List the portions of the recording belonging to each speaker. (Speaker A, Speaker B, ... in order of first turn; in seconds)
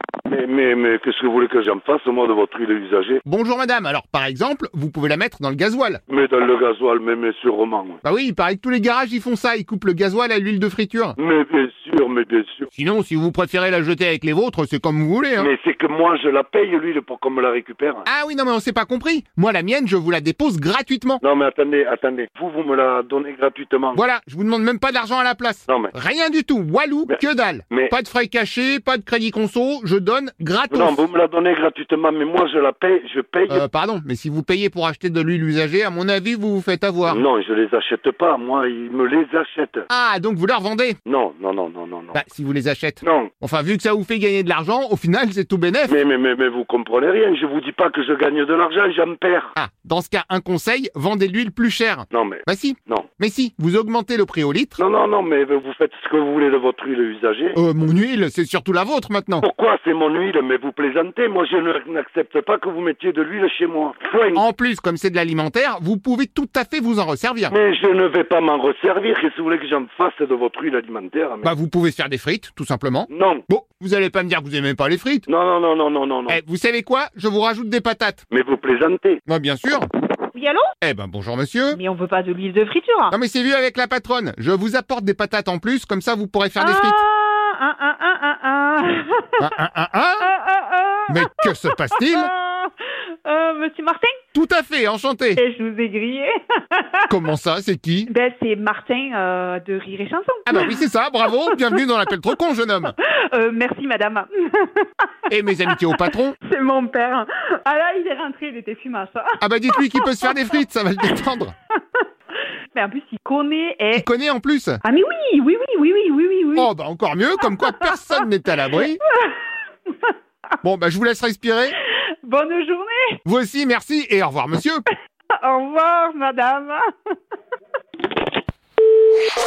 Speaker A: 0.3-3.2, 6.1-8.0, 11.2-12.7, 15.4-18.1, 21.2-24.0, 25.7-25.9, 27.1-27.9, 30.7-33.6, 37.1-39.9, 41.1-42.2, 43.0-43.3, 45.9-49.5, 52.1-53.1, 54.8-57.6, 59.4-64.4, 67.5-71.5, 73.1-73.5, 75.3-76.4, 78.3-79.2
Speaker B: 3.2-6.0, 8.0-11.2, 12.7-15.5, 18.1-21.2, 23.9-31.0, 33.5-37.2, 39.9-41.0, 42.1-46.0, 49.6-54.8, 57.5-59.5, 64.3-67.6, 71.4-75.3, 76.3-78.2, 79.3-79.9, 80.8-81.8, 83.1-87.0, 89.4-90.3, 91.1-92.3, 94.3-95.4, 97.1-98.1, 100.5-103.0, 105.3-106.4, 109.4-111.5, 113.9-114.8, 116.5-119.0, 120.6-121.8, 123.2-124.8
Speaker C: 80.3-80.7, 81.7-83.2, 86.6-89.5, 90.2-94.2, 95.4-97.1, 98.1-101.8, 103.0-105.2, 105.7-111.2, 111.7-112.1, 112.7-114.1, 114.8-116.7, 117.7-118.2, 118.7-120.5, 121.8-123.2, 125.3-126.8